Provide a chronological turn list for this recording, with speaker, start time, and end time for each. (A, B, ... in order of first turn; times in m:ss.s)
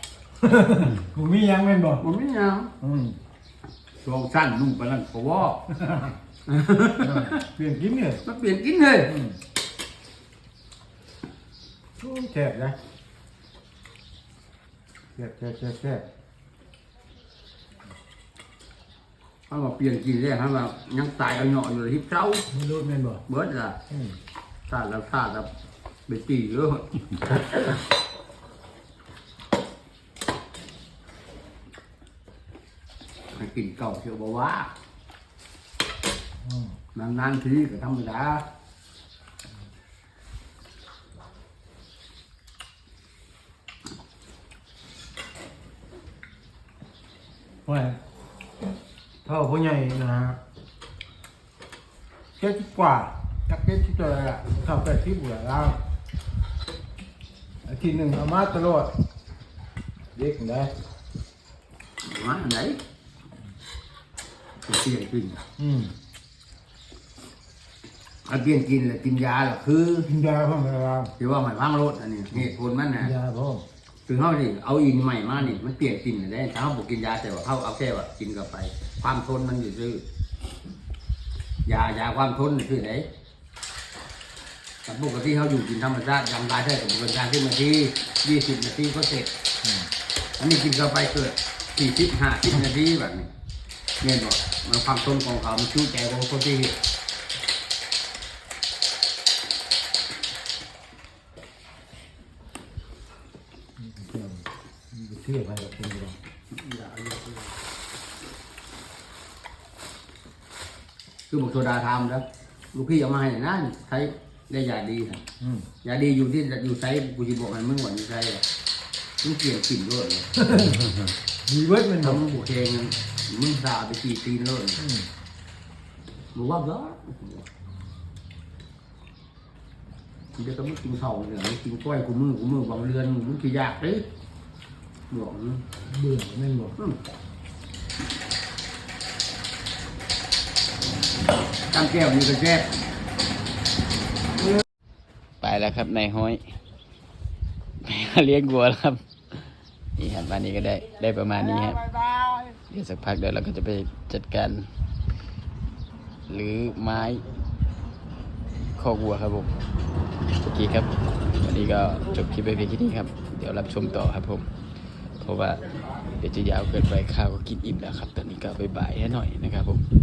0:00.4-0:02.0 A
0:02.0-0:02.7 B
0:02.8-0:03.2 A
0:04.0-0:05.6 B
0:05.7-0:06.2 A
0:06.5-0:07.4 B
0:07.0-0:08.2 A
0:08.2-0:09.1 B
0:09.1-0:09.4 A
0:12.0-0:12.8 A
0:15.2-0:16.1 A
0:19.5-0:22.5 B
0:22.5-0:23.2 A
0:23.3-0:23.8 B
0:23.9-0:24.2 A
0:24.7-0:25.5 B
0:26.1-0:27.6 B
0:33.3-0:34.7 B
0:36.4-0:36.8 A
0:37.0-0:38.4 B
0:47.7-0:48.0 A
0:49.2-0:50.4 A
0:52.4-0:55.8 A
0:57.7-0:58.9 A
1:00.2-1:00.7 A
1:02.0-1:02.8 B
1:04.7-1:05.4 B
1:05.6-1:05.9 A
1:08.3-1:10.1 B
1:10.1-1:11.1 A
1:11.2-1:13.1 B
1:13.0-1:13.6 A
1:14.1-1:20.0 B
1:21.7-1:23.1 B
1:24.9-1:29.3 B
1:29.6-1:29.9 A
1:30.4-1:33.3 B
1:34.0-1:36.8 B
1:43.8-1:46.2 A
1:46.5-1:47.5 B
1:51.3-1:55.2 B
1:55.4-1:55.7 A
1:55.8-1:58.4 B
1:59.2-2:00.3 B
2:00.4-2:00.8 A
2:01.5-2:02.2 A
2:02.0-2:04.8 B
2:04.8-2:05.1 A
2:06.4-2:07.5 B
2:10.4-2:14.0 B
2:15.1-2:15.6 B
2:15.9-2:16.8 A
2:21.7-2:22.7 B
2:25.4-2:26.4 C
2:27.8-2:31.8 C
2:32.7-2:34.7 C
2:36.3-2:37.2 C
2:38.8-2:39.5 C
2:40.4-2:44.5 C
2:45.2-2:45.6 C
2:46.2-2:49.8 C